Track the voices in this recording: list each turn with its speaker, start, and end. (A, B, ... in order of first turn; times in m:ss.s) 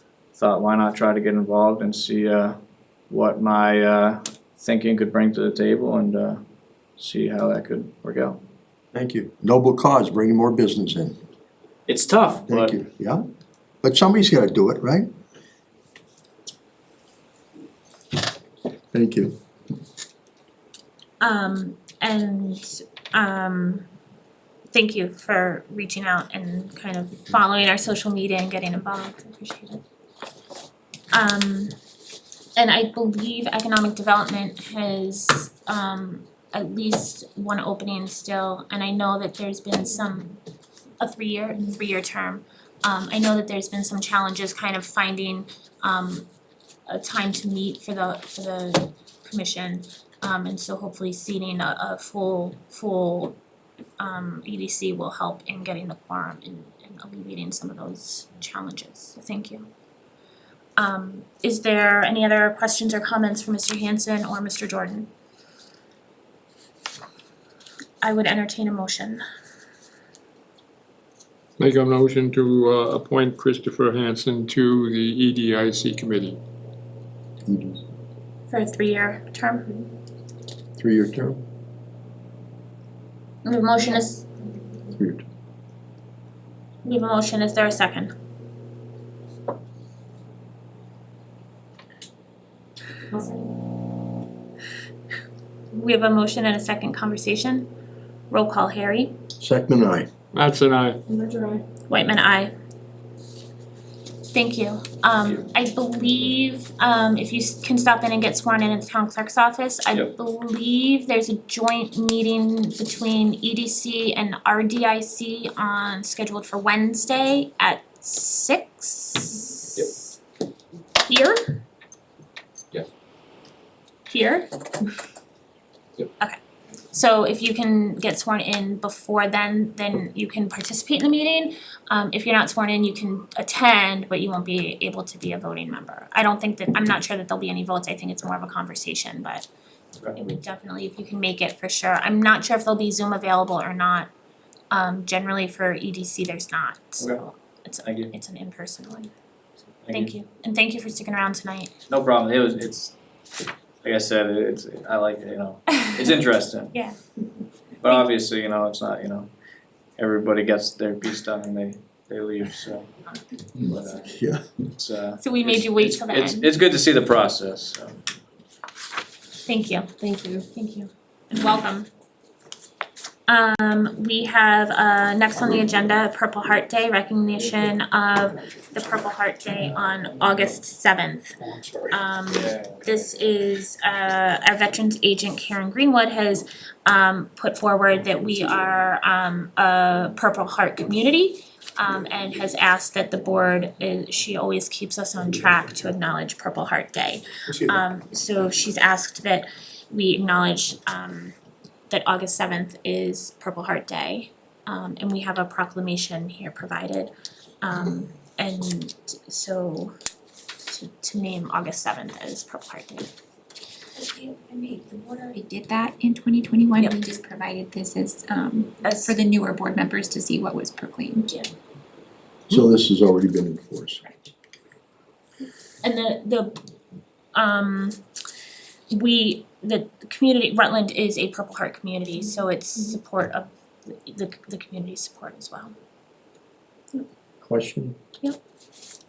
0:00.3-0:06.4 A
0:07.0-0:08.4 A
0:08.9-0:11.2 B
0:11.9-0:12.8 A
0:12.5-0:13.2 B
0:13.8-0:15.1 B
0:18.9-0:19.4 B
0:21.2-0:23.9 C
0:24.7-0:29.8 C
0:31.1-0:31.7 C
0:32.6-0:40.4 C
0:41.0-0:46.2 C
0:46.9-0:53.4 C
0:54.0-0:59.7 C
1:00.8-1:05.1 C
1:08.0-1:09.2 C
1:11.6-1:16.4 D
1:17.4-1:17.8 B
1:18.5-1:19.9 C
1:20.8-1:21.4 B
1:23.4-1:24.2 C
1:24.9-1:25.2 B
1:26.8-1:28.1 C
1:35.7-1:37.7 C
1:38.3-1:39.2 C
1:39.4-1:40.1 B
1:40.3-1:41.0 D
1:41.9-1:42.5 C
1:44.3-1:59.9 C
2:01.0-2:01.6 C
2:04.1-2:04.5 C
2:06.9-2:19.5 C
2:20.1-2:24.1 C
2:24.7-2:29.1 C
2:27.8-2:28.1 A
2:29.8-2:30.1 A
2:29.9-2:31.7 C
2:31.9-2:33.0 A
2:33.8-2:36.7 A
2:35.7-2:36.1 C
2:37.8-2:39.3 A
2:40.0-2:42.9 A
2:43.6-2:44.1 A
2:44.1-2:44.4 B
2:44.7-2:48.0 A
2:45.2-2:46.5 C
2:49.4-2:51.9 C
2:53.3-3:21.3 C
3:02.3-3:02.9 A
3:17.5-3:17.8 B
3:21.9-3:30.0 C
3:30.7-3:33.1 C
3:34.0-3:41.3 E
3:38.8-3:39.2 C
3:42.5-3:44.0 B
3:45.8-3:46.6 C
3:47.3-3:48.0 C
3:48.9-3:55.7 C
3:57.4-3:58.0 B